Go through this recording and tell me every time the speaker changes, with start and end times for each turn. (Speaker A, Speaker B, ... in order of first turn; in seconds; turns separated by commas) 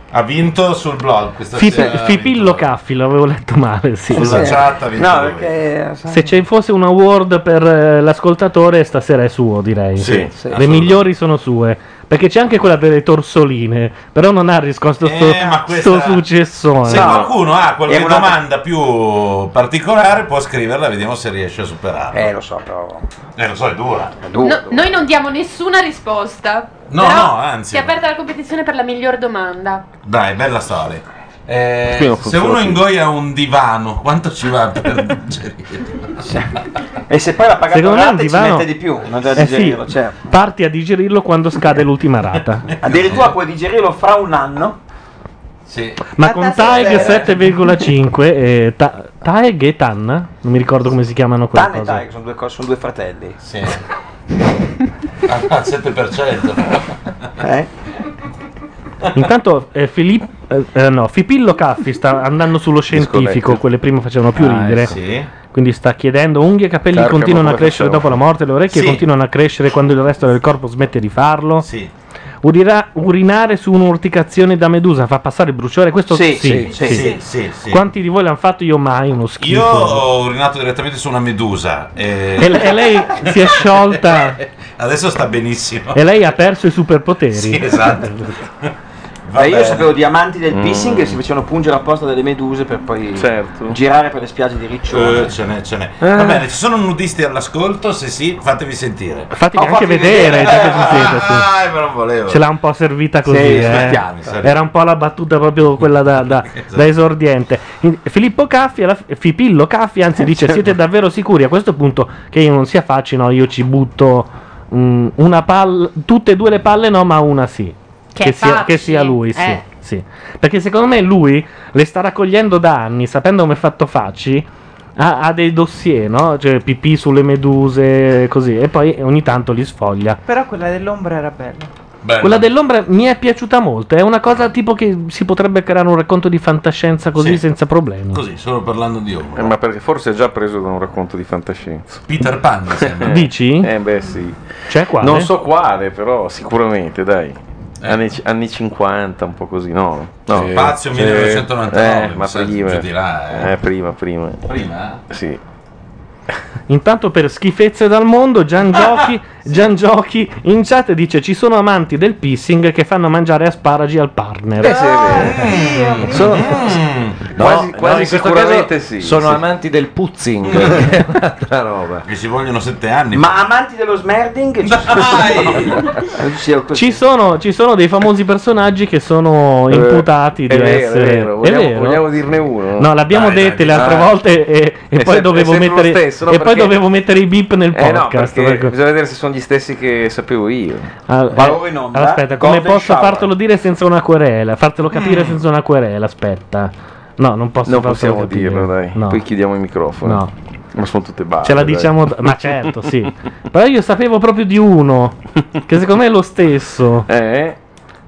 Speaker A: 0.1-2.7, Speaker B: 1.5-4.5, Speaker A: 4.1-5.5, Speaker C: 4.1-6.4, Speaker B: 6.1-17.2, Speaker A: 10.0-11.0, Speaker C: 10.3-10.7, Speaker A: 15.0-16.2, Speaker A: 16.8-22.3, Speaker C: 16.9-18.4, Speaker C: 22.1-23.1, Speaker A: 23.4-24.2, Speaker C: 24.2-25.0, Speaker D: 24.4-29.8, Speaker A: 26.9-28.0, Speaker A: 30.0-36.2, Speaker E: 31.9-32.8, Speaker C: 37.1-40.2, Speaker B: 37.7-38.7, Speaker B: 39.4-42.7, Speaker A: 42.8-43.4, Speaker C: 42.8-44.8, Speaker A: 45.7-46.1, Speaker B: 46.2-52.0, Speaker F: 46.2-47.4, Speaker C: 46.9-47.2, Speaker C: 51.5-53.4, Speaker A: 53.4-53.8, Speaker A: 55.2-56.8, Speaker C: 57.4-57.7, Speaker B: 59.1-65.0, Speaker E: 62.9-63.6, Speaker E: 64.4-64.9, Speaker A: 64.8-65.3, Speaker B: 65.5-71.7, Speaker E: 66.9-68.2, Speaker A: 68.7-69.0, Speaker A: 71.6-71.9, Speaker B: 72.4-77.1, Speaker C: 76.1-77.2, Speaker A: 76.8-77.8, Speaker B: 77.7-80.0, Speaker A: 79.4-84.2, Speaker B: 82.4-84.4, Speaker A: 84.8-86.0, Speaker B: 85.9-88.3, Speaker A: 87.3-88.1, Speaker A: 89.3-89.9, Speaker C: 89.4-95.3, Speaker E: 90.5-91.1, Speaker E: 93.2-93.8, Speaker A: 94.9-99.3, Speaker E: 96.0-96.4, Speaker B: 99.3-101.5, Speaker C: 99.5-101.0, Speaker A: 100.3-102.4, Speaker B: 102.3-124.5, Speaker C: 103.2-104.4, Speaker A: 103.4-104.5, Speaker D: 118.2-119.6, Speaker B: 125.0-130.2, Speaker F: 130.3-131.7, Speaker A: 132.0-132.5, Speaker B: 132.2-138.2, Speaker A: 137.2-137.4, Speaker A: 138.1-139.6, Speaker E: 139.4-141.8, Speaker A: 142.1-143.2, Speaker B: 143.1-143.7, Speaker E: 143.6-144.4, Speaker B: 144.7-145.3, Speaker E: 145.0-154.4, Speaker A: 150.3-153.6, Speaker A: 154.5-155.0, Speaker E: 155.1-155.4, Speaker B: 156.7-164.8, Speaker E: 164.6-165.5, Speaker F: 164.6-166.5, Speaker A: 165.2-167.3, Speaker E: 166.1-166.6, Speaker G: 167.4-171.7, Speaker E: 167.4-169.4, Speaker A: 170.5-170.8, Speaker E: 170.5-170.9, Speaker E: 171.6-172.0, Speaker A: 172.1-173.4, Speaker C: 173.1-177.0, Speaker A: 174.6-175.8, Speaker B: 176.7-182.1, Speaker E: 179.7-182.9, Speaker B: 182.8-188.8, Speaker A: 183.1-184.0, Speaker E: 183.7-184.1, Speaker E: 184.9-186.8, Speaker E: 187.7-190.9, Speaker B: 191.1-199.2, Speaker C: 191.3-193.3, Speaker A: 194.9-195.4, Speaker E: 197.7-202.0, Speaker B: 200.0-200.3, Speaker B: 201.4-207.1, Speaker E: 207.1-207.6